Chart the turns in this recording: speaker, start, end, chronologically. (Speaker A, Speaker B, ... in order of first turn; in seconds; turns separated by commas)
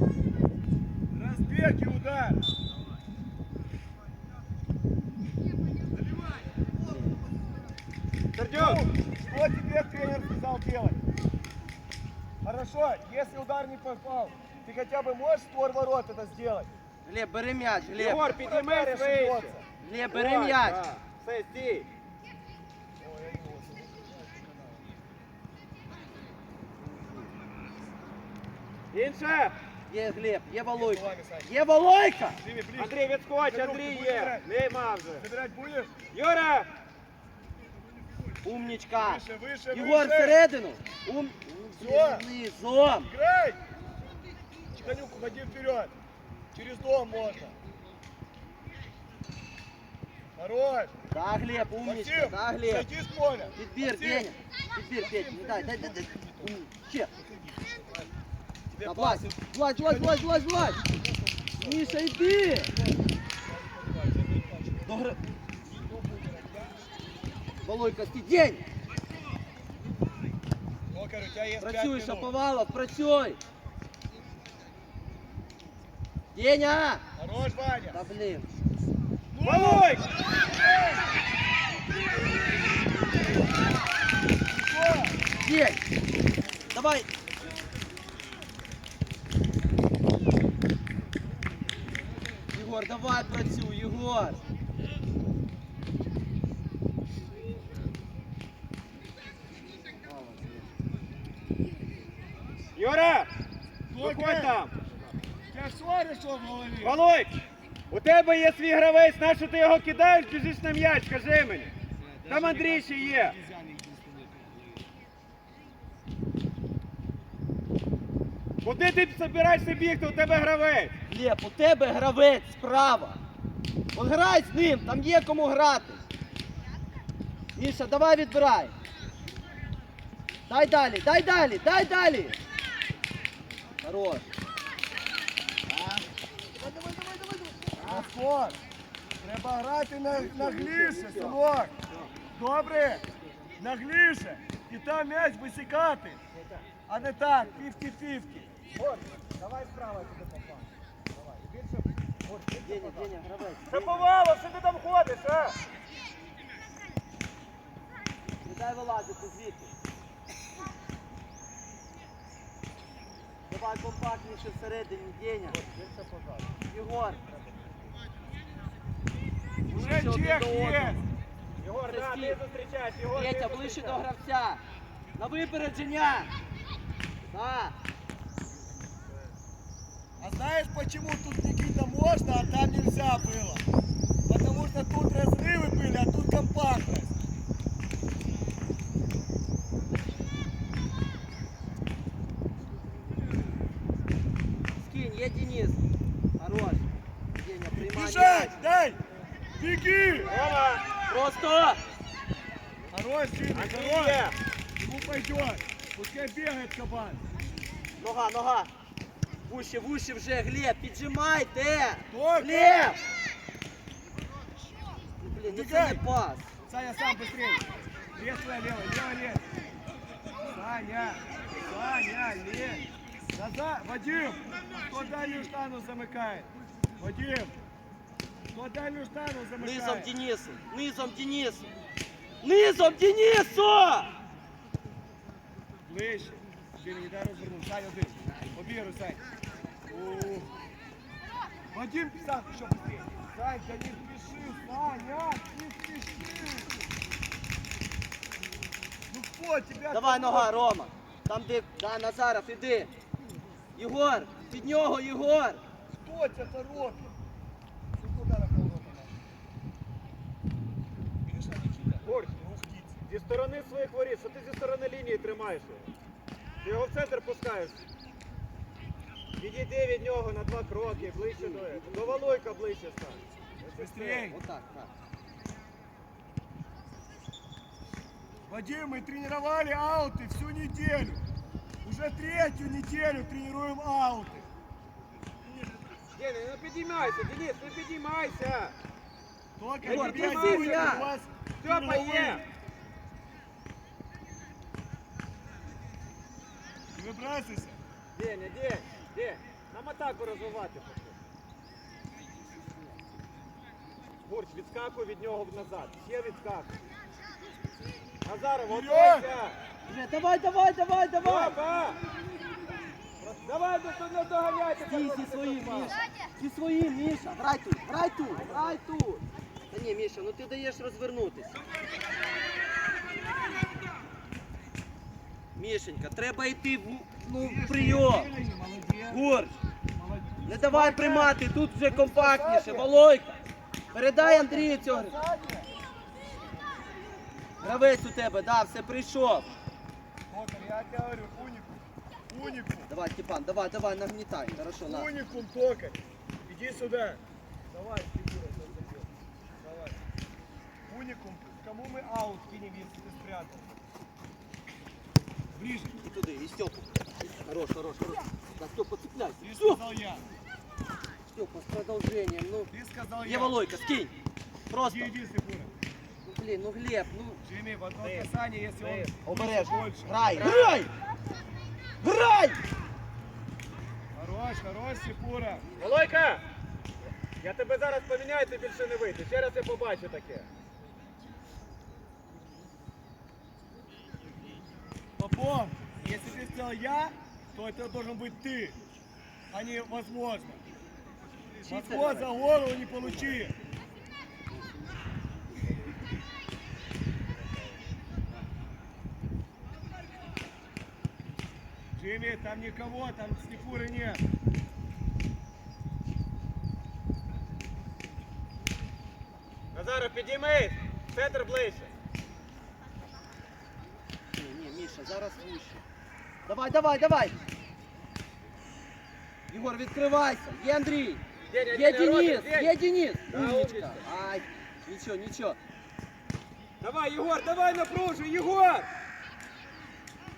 Speaker A: 1.1-2.4, Speaker B: 6.8-7.1, Speaker C: 8.3-8.8, Speaker A: 8.5-11.0, Speaker A: 12.4-16.7, Speaker B: 17.1-18.2, Speaker C: 17.9-19.6, Speaker A: 18.2-19.6, Speaker B: 19.8-20.8, Speaker C: 20.1-21.9, Speaker A: 23.0-24.9, Speaker B: 26.9-27.3, Speaker C: 28.9-29.5, Speaker B: 29.9-32.4, Speaker A: 30.6-31.5, Speaker A: 32.4-34.5, Speaker C: 32.8-35.2, Speaker A: 35.2-35.9, Speaker C: 36.1-36.7, Speaker B: 38.4-43.1, Speaker A: 38.9-40.4, Speaker A: 41.8-42.2, Speaker A: 43.0-43.6, Speaker A: 44.7-45.9, Speaker A: 46.5-47.5, Speaker A: 50.4-50.9, Speaker B: 51.1-52.9, Speaker A: 51.8-54.3, Speaker B: 53.5-57.1, Speaker A: 55.0-56.6, Speaker A: 57.1-58.1, Speaker A: 58.7-66.9, Speaker B: 58.8-60.8, Speaker B: 61.6-62.7, Speaker B: 64.8-65.2, Speaker B: 67.6-68.6, Speaker A: 70.9-72.3, Speaker B: 71.6-73.4, Speaker B: 76.3-77.0, Speaker A: 77.2-78.0, Speaker B: 77.9-78.5, Speaker A: 79.3-81.1, Speaker C: 79.4-80.1, Speaker A: 84.5-85.2, Speaker B: 85.4-85.8, Speaker B: 86.7-87.1, Speaker B: 92.5-94.4, Speaker B: 100.0-100.7, Speaker C: 102.8-103.3, Speaker A: 103.9-104.6, Speaker C: 104.0-105.0, Speaker A: 105.5-107.0, Speaker C: 106.8-107.3, Speaker C: 107.9-111.7, Speaker A: 111.9-114.9, Speaker C: 112.3-113.3, Speaker C: 118.6-120.9, Speaker B: 121.1-123.2, Speaker B: 123.9-126.0, Speaker B: 127.5-128.7, Speaker B: 130.5-132.4, Speaker B: 133.8-134.2, Speaker B: 135.7-136.0, Speaker A: 136.6-138.6, Speaker B: 137.7-138.1, Speaker A: 139.2-141.7, Speaker B: 140.3-141.3, Speaker C: 140.4-141.3, Speaker A: 142.3-143.0, Speaker A: 143.6-146.2, Speaker C: 146.3-147.8, Speaker A: 146.9-148.5, Speaker C: 148.7-153.1, Speaker B: 152.6-154.1, Speaker C: 153.7-155.6, Speaker B: 158.4-159.7, Speaker B: 163.5-165.6, Speaker C: 165.5-166.5, Speaker B: 166.7-167.3, Speaker B: 169.7-171.0, Speaker A: 169.7-171.0, Speaker C: 171.6-174.0, Speaker B: 171.8-172.4, Speaker B: 173.1-174.6, Speaker B: 175.2-176.3, Speaker B: 177.2-177.7, Speaker A: 180.2-183.6, Speaker A: 184.3-187.2, Speaker B: 194.8-195.8, Speaker B: 196.4-198.6, Speaker A: 197.7-199.0, Speaker A: 199.6-200.3, Speaker C: 200.2-200.8, Speaker B: 201.0-201.8, Speaker A: 202.9-204.2, Speaker C: 203.5-204.3, Speaker A: 204.8-207.2, Speaker B: 208.0-208.7, Speaker B: 209.4-213.0, Speaker A: 212.1-212.9, Speaker B: 215.2-216.5, Speaker A: 215.5-216.0, Speaker A: 216.7-217.6, Speaker A: 218.2-219.4, Speaker A: 220.5-227.6, Speaker A: 228.5-230.1, Speaker B: 229.6-231.7, Speaker B: 232.4-234.1, Speaker A: 235.8-239.2, Speaker A: 239.9-240.5, Speaker A: 241.7-246.8, Speaker A: 249.1-250.6, Speaker B: 249.9-252.9, Speaker B: 253.8-255.6, Speaker A: 255.9-257.1, Speaker A: 257.9-259.2, Speaker A: 261.2-263.0, Speaker C: 262.0-262.3, Speaker C: 263.1-265.9, Speaker C: 266.6-267.8, Speaker C: 269.4-274.3, Speaker B: 271.4-271.8, Speaker A: 273.8-274.4, Speaker B: 274.2-274.9, Speaker A: 278.5-281.2, Speaker A: 281.8-284.5, Speaker C: 286.1-288.7, Speaker A: 289.6-292.4, Speaker B: 289.8-291.1, Speaker C: 289.9-291.0, Speaker C: 291.6-292.4, Speaker A: 296.9-297.8, Speaker C: 298.1-301.2, Speaker C: 304.2-306.8, Speaker C: 308.2-309.6, Speaker A: 308.6-309.3, Speaker B: 309.9-311.6, Speaker C: 311.2-312.0, Speaker C: 313.2-316.0, Speaker B: 314.9-321.5, Speaker C: 318.3-318.8, Speaker B: 325.5-328.3, Speaker A: 327.4-329.3, Speaker B: 329.1-329.5, Speaker A: 329.9-332.9, Speaker B: 330.4-333.4, Speaker B: 333.9-335.1, Speaker A: 334.2-335.7, Speaker B: 337.6-339.5, Speaker A: 340.3-342.9, Speaker B: 342.9-345.1, Speaker A: 344.8-350.0, Speaker A: 350.9-353.8, Speaker A: 355.5-356.0, Speaker B: 356.0-359.8, Speaker A: 359.4-360.2, Speaker B: 361.3-362.7, Speaker A: 362.7-363.6, Speaker B: 363.2-364.1, Speaker B: 364.7-365.1, Speaker A: 364.9-365.7, Speaker B: 366.2-367.4, Speaker A: 367.4-370.6, Speaker C: 368.0-369.1, Speaker B: 369.2-370.9, Speaker C: 370.3-370.9, Speaker B: 372.0-372.6, Speaker A: 374.1-375.7, Speaker C: 375.8-376.4, Speaker C: 377.4-380.5, Speaker A: 385.2-388.8, Speaker A: 389.5-390.6, Speaker A: 391.6-393.6, Speaker B: 391.6-392.3, Speaker A: 401.9-404.2, Speaker C: 409.7-411.9, Speaker B: 414.3-415.8, Speaker B: 416.4-417.4, Speaker B: 419.5-425.6, Speaker C: 421.5-422.7, Speaker C: 423.3-424.0, Speaker C: 426.8-428.9